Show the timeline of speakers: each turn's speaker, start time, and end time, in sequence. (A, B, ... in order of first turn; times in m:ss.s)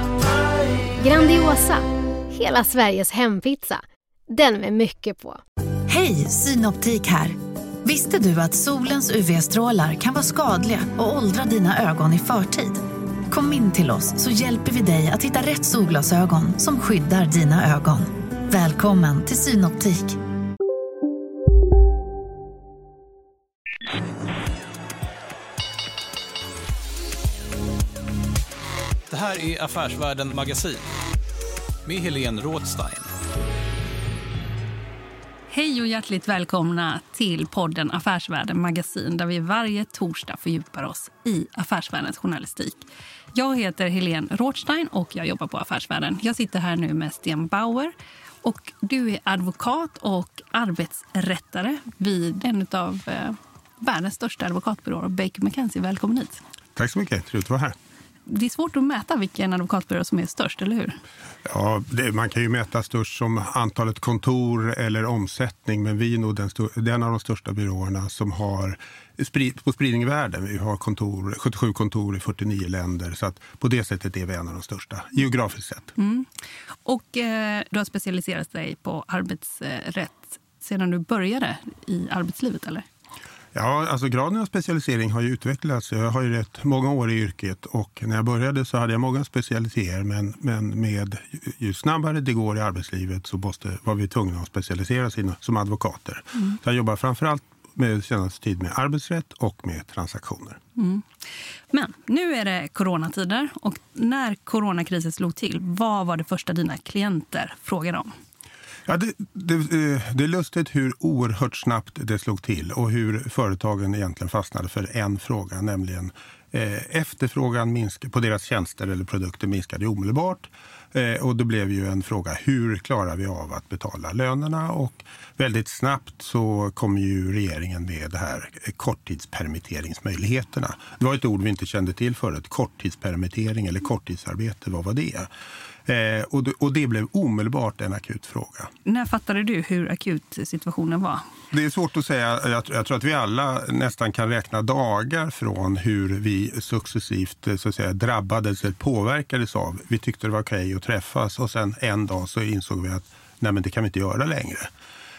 0:01.0-0:05.4 A
0:05.9-0:20.2 B
0:29.1-0:30.8 C
0:31.8-0:33.1 C
0:35.5-0:47.9 D
0:48.4-0:56.4 D
0:56.8-0:57.8 E
0:58.3-1:01.0 D
1:01.4-1:15.9 E
1:16.0-1:16.3 D
1:16.9-1:22.9 D
1:23.5-1:40.6 E
1:40.8-1:41.1 D
1:41.7-1:48.1 D
1:48.9-2:15.3 E
2:15.8-2:18.7 E
2:18.9-2:21.2 D
2:21.5-2:34.7 E